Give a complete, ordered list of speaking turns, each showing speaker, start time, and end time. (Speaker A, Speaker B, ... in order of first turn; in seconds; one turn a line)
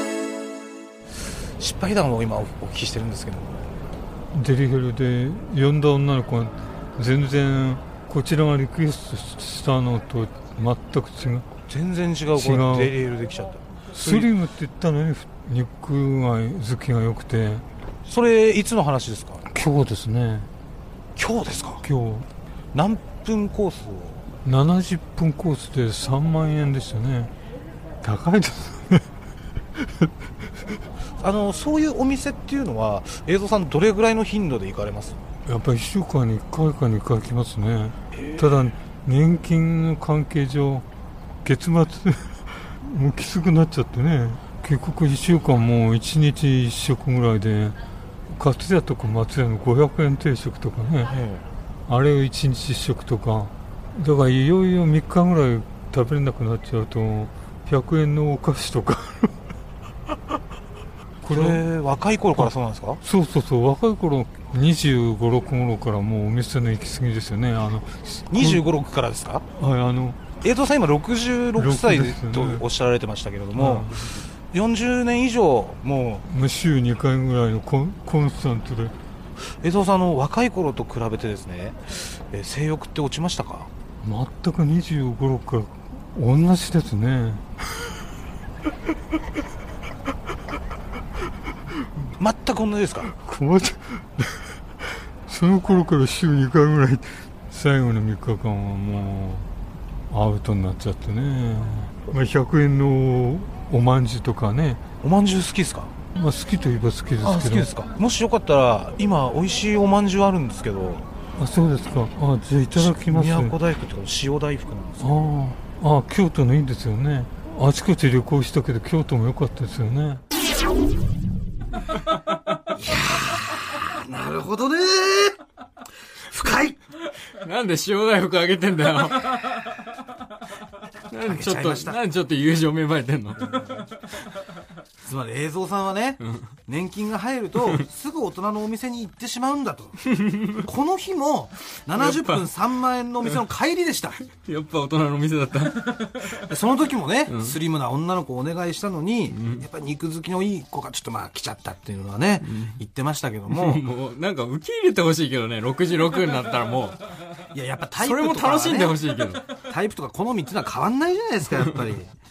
Speaker A: 1.6-3.6
Speaker B: 4.3-11.5
Speaker A: 11.7-14.3
Speaker B: 12.4-12.9
Speaker B: 14.0-17.6
Speaker A: 18.1-19.4
Speaker B: 19.5-20.5
Speaker A: 21.2-21.8
Speaker B: 21.8-22.3
Speaker A: 22.7-24.2
Speaker B: 24.4-27.3
Speaker B: 28.0-29.1
Speaker A: 31.2-35.2
Speaker B: 35.5-40.9
Speaker A: 38.1-38.5
Speaker B: 41.4-51.2
Speaker A: 51.1-51.4
Speaker B: 51.9-59.4
Speaker B: 61.2-61.6
Speaker A: 61.3-63.0
Speaker B: 63.0-68.6
Speaker A: 68.3-69.4
Speaker B: 69.6-70.2
Speaker A: 70.4-76.2
Speaker B: 71.6-72.7
Speaker B: 73.6-74.0
Speaker B: 76.2-78.9
Speaker A: 79.6-83.7
Speaker B: 84.0-87.5
Speaker A: 92.2-93.1
Speaker B: 93.1-94.5
Speaker B: 95.2-99.5
Speaker B: 100.1-104.8
Speaker A: 105.0-105.9
Speaker B: 106.1-107.7
Speaker A: 107.2-111.1
Speaker B: 111.4-113.5
Speaker A: 112.7-115.2
Speaker B: 115.0-120.2
Speaker A: 122.8-125.4
Speaker A: 126.3-126.8
Speaker C: 127.4-129.5
Speaker C: 131.1-133.6
Speaker A: 131.2-132.0
Speaker A: 135.0-144.2
Speaker C: 140.1-140.6
Speaker C: 142.0-142.4
Speaker C: 144.3-146.5
Speaker A: 146.4-153.8
Speaker C: 147.3-147.6
Speaker C: 149.3-149.6
Speaker C: 152.5-152.8
Speaker C: 153.5-157.0
Speaker A: 157.5-159.0
Speaker C: 158.0-159.5
Speaker A: 159.7-162.1